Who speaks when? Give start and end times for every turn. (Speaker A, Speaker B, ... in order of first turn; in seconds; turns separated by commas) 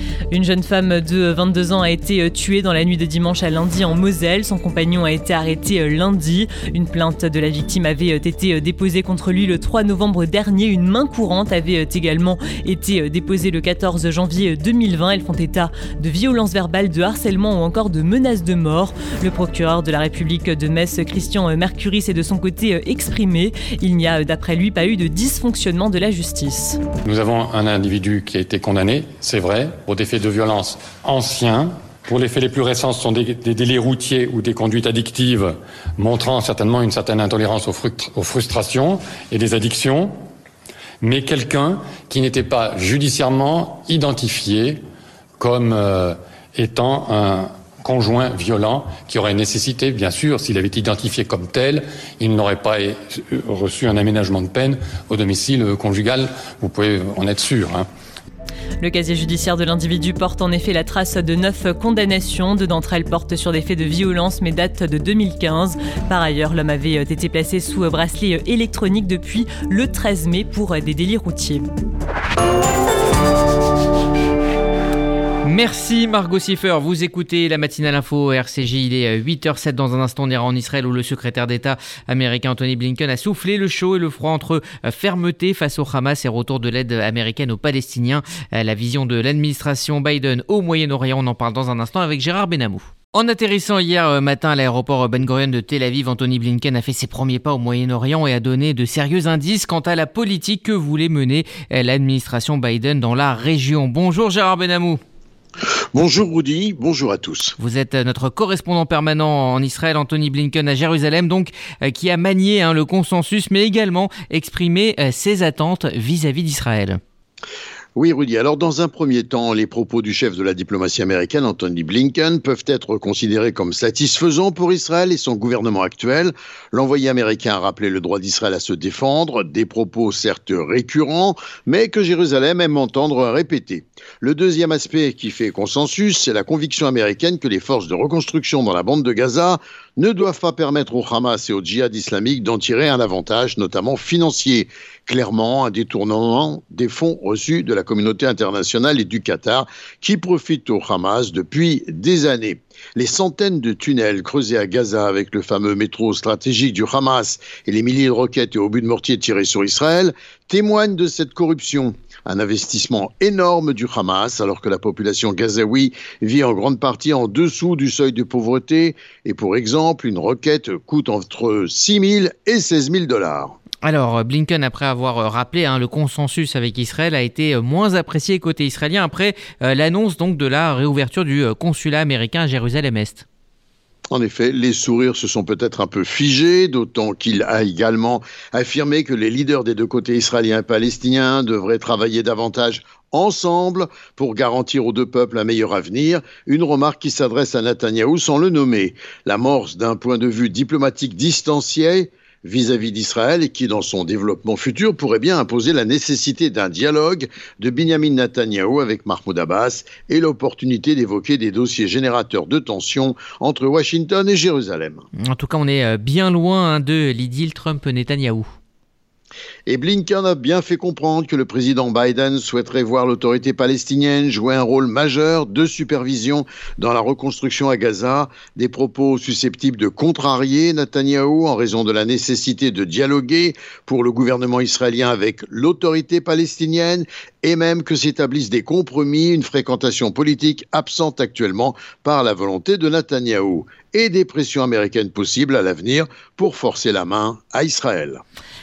Speaker A: 0.3-26.8, Speaker B: 27.0-40.2, Speaker B: 41.0-44.8, Speaker B: 45.4-57.9, Speaker A: 58.8-71.7, Speaker C: 75.4-105.0, Speaker D: 105.9-107.5, Speaker C: 107.6-117.0, Speaker D: 118.0-173.5, Speaker C: 173.8-183.2, Speaker D: 184.1-215.0, Speaker C: 215.2-218.5, Speaker D: 219.7-248.2